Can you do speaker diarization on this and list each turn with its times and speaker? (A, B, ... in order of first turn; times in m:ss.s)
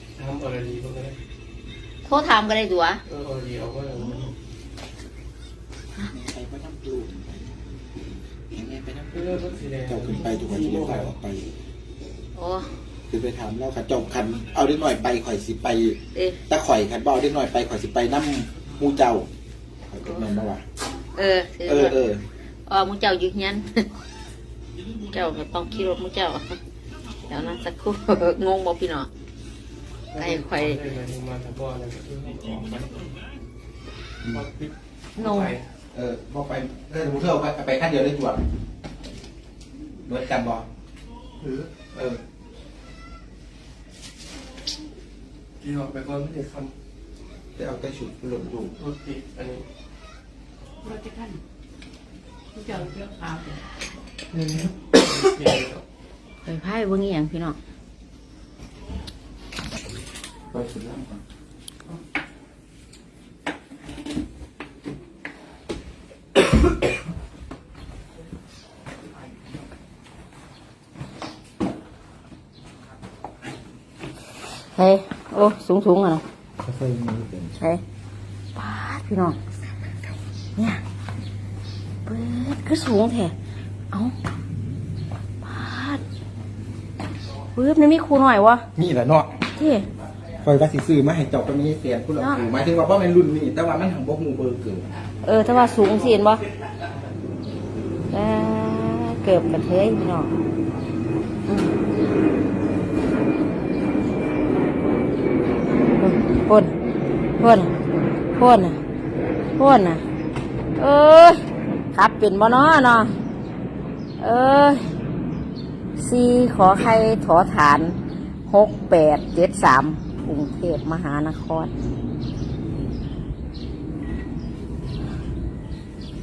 0:00.2-0:01.2 A
0:02.0-0:03.0 B
0:03.0-0:04.3 A
0:06.0-0:07.4 C
0:08.5-0:11.5 C
0:09.1-0:11.1 A
0:12.3-0:12.7 B
0:13.1-0:19.3 C
0:16.1-0:16.4 B
0:19.9-0:20.6 C
0:20.0-0:20.3 B
0:21.1-0:22.0 B
0:21.6-0:22.2 C
0:22.7-0:23.8 B
0:25.1-0:26.6 B
0:27.3-0:29.1 B
0:30.1-0:33.1 A
0:30.2-0:30.8 B
0:34.3-0:35.6 A
0:35.2-0:35.6 B
0:35.9-0:38.4 C
0:40.0-0:40.6 C
0:41.4-0:41.7 A
0:41.9-0:42.2 C
0:45.6-0:46.7 A
0:47.6-0:48.7 C
0:48.8-0:49.6 A
0:52.6-0:53.5 A
0:54.3-0:54.7 C
0:54.6-0:55.8 A
0:56.4-0:57.6 B
1:00.5-1:01.2 C
1:14.7-1:16.2 B
1:16.6-1:17.5 C
1:18.6-1:19.4 B
1:20.6-1:20.8 B
1:22.0-1:23.3 B
1:25.4-1:26.0 B
1:27.5-1:28.7 B
1:28.8-1:29.4 C
1:29.5-1:29.9 B
1:30.4-1:34.9 C
1:32.2-1:32.5 B
1:35.2-1:36.4 B
1:38.1-1:40.3 B
1:41.4-1:41.7 B
1:46.0-1:46.7 B
1:47.4-1:47.7 B
1:48.4-1:48.8 B
1:49.6-1:50.0 B
1:50.8-1:53.1 B
1:54.2-1:54.8 B
1:56.0-2:01.7 B